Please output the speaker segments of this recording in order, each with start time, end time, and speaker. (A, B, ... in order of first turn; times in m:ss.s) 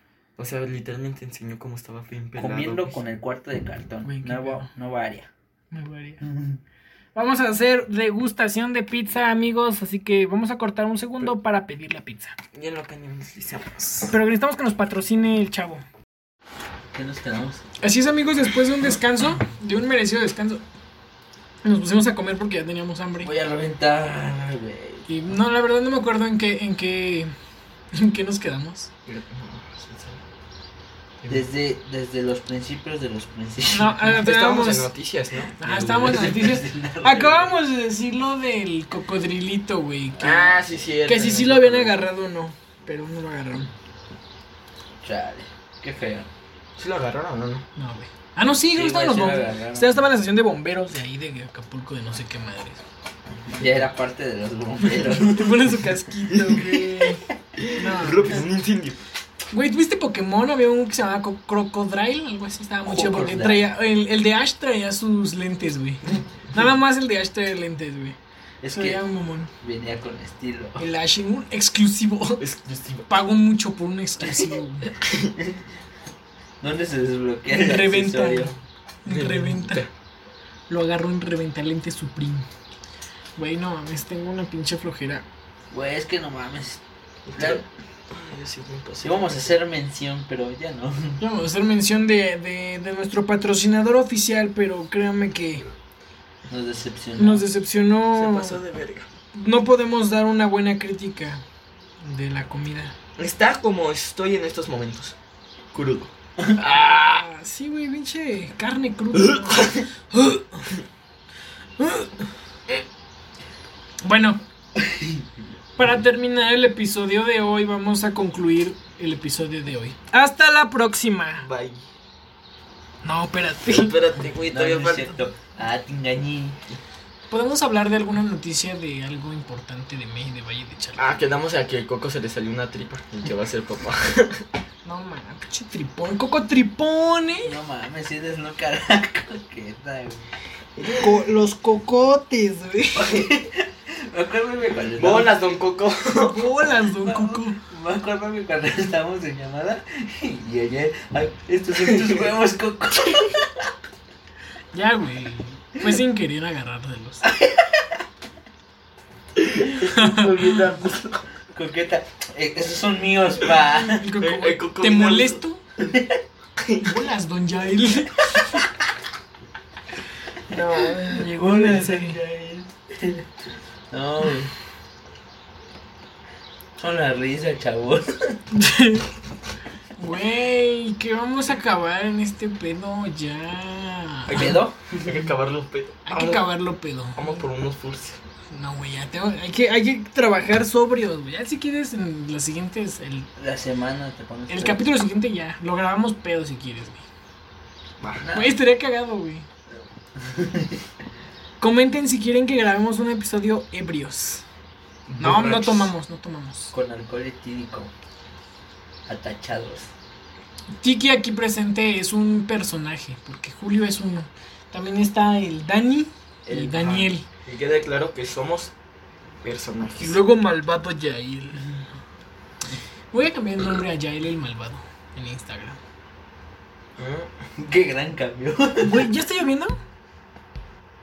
0:00.4-0:03.0 A
0:02.4-0:05.3 B
0:04.0-0:04.7 C
0:05.7-0:06.2 C
0:06.2-0:06.6 B
0:07.1-0:12.4 C
0:12.5-0:14.1 A
0:14.1-0:15.8 C
0:16.9-0:17.6 B
0:17.8-0:20.6 C
0:21.6-0:23.3 C
0:23.2-0:25.1 B
0:25.1-0:27.3 C
0:27.9-0:28.9 C
0:29.1-0:30.2 A
0:31.3-0:34.0 B
0:33.7-0:34.9 C
0:34.0-0:36.4 A
0:35.6-0:43.7 C
0:36.0-0:37.5 B
0:40.2-0:42.1 A
0:45.0-0:46.3 B
0:46.8-0:47.7 A
0:47.8-0:52.8 C
0:48.7-0:50.0 B
0:53.5-0:55.7 B
0:55.0-0:57.2 C
0:56.3-0:56.6 A
0:57.6-0:59.0 A
0:57.8-0:58.4 C
0:59.5-1:08.2 C
1:02.8-1:03.7 B
1:08.6-1:09.0 B
1:08.7-1:09.5 C
1:09.6-1:10.8 B
1:10.8-1:12.4 C
1:12.4-1:13.1 A
1:13.1-1:14.9 C
1:15.0-1:15.3 A
1:16.6-1:18.5 B
1:17.5-1:18.5 C
1:19.0-1:19.8 C
1:19.1-1:19.9 A
1:20.7-1:22.5 C
1:23.4-1:25.2 C
1:25.7-1:26.8 B
1:27.3-1:29.6 A
1:27.4-1:27.6 B
1:29.0-1:31.2 B
1:31.2-1:35.6 C
1:36.5-1:37.4 B
1:37.2-1:38.6 C
1:38.1-1:39.1 A
1:39.3-1:41.4 C
1:42.0-1:43.0 C
1:43.2-1:45.2 A
1:45.7-1:47.2 A
1:46.6-1:50.6 C
1:49.1-1:49.8 A
1:51.8-1:52.1 C
1:54.0-1:54.4 C
1:54.9-1:55.3 B
1:55.8-2:01.5 C
2:01.4-2:01.8 A
2:03.0-2:04.0 C
2:03.7-2:05.2 A
2:04.4-2:06.6 B
2:07.3-2:11.2 C
2:11.0-2:14.4 A
2:14.8-2:17.6 C
2:17.4-2:20.3 B
2:20.8-2:21.1 A
2:21.0-2:23.1 C
2:23.0-2:25.3 B
2:25.0-2:26.5 A
2:26.1-2:27.6 C
2:27.0-2:33.7 B
2:34.7-2:37.3 C
2:37.2-2:37.9 B
2:39.6-2:44.1 B
2:39.8-2:40.3 C
2:43.9-2:45.6 C
2:44.2-2:45.4 A
2:45.8-2:46.2 B
2:46.6-2:46.8 A
2:46.8-2:48.7 C
2:50.5-2:52.2 C
2:51.3-2:53.2 B
2:53.9-2:54.5 B
2:56.8-2:58.4 B
2:58.5-2:59.1 C
3:00.0-3:04.6 C
3:04.3-3:05.2 B
3:04.3-3:06.5 A
3:06.1-3:07.4 C
3:07.1-3:08.2 A
3:08.5-3:13.3 C
3:13.4-3:14.8 B
3:14.5-3:17.0 C
3:18.0-3:18.2 A
3:18.2-3:18.6 B
3:18.3-3:19.5 C
3:20.2-3:20.8 B
3:21.6-3:24.4 C
3:25.1-3:25.9 B
3:25.2-3:26.7 C
3:26.7-3:27.9 B
3:29.1-3:29.9 B
3:30.8-3:37.3 C
3:36.4-3:38.7 A
3:39.4-3:40.2 A
3:40.0-3:41.7 C
3:43.1-3:45.8 C
3:47.0-3:47.3 A
3:47.6-3:49.1 B
3:48.8-3:49.8 C